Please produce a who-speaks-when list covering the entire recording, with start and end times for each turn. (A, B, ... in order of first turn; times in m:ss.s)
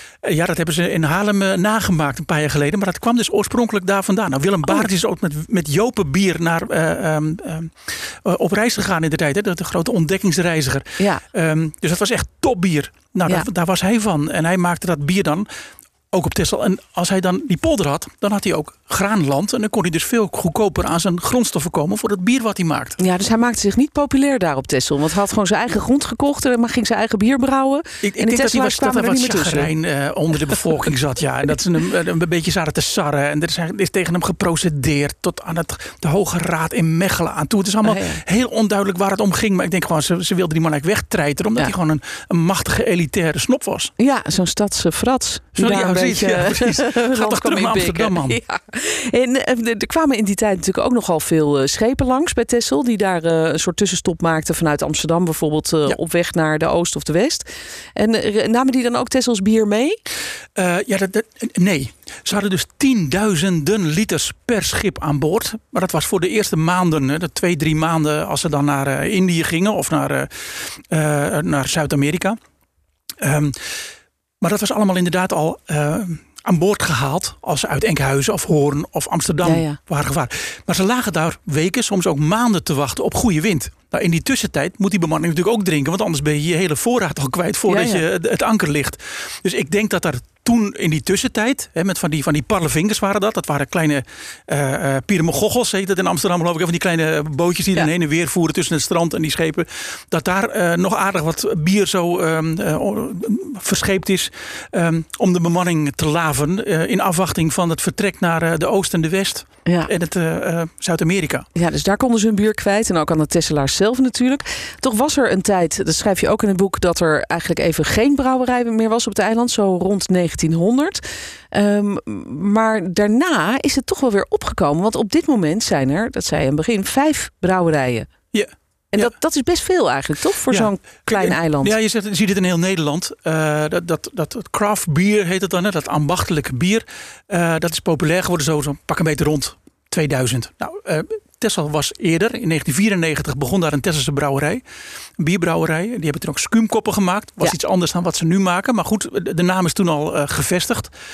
0:00.2-0:15.5 A
0:11.0-0:11.2 B
0:16.1-0:23.0 A
0:23.0-0:29.7 B
0:28.0-0:43.9 A
0:37.8-0:38.2 B
0:44.0-1:00.0 B
0:45.6-0:48.4 A
1:00.6-1:12.4 A
1:13.2-1:13.8 A
1:14.4-1:51.5 A
1:19.4-1:19.8 B
1:27.7-1:28.0 B
1:49.7-1:49.9 B
1:51.6-2:08.1 B
2:08.3-2:09.1 A
2:08.9-2:11.8 B
2:10.5-2:24.6 A
2:25.2-2:30.9 A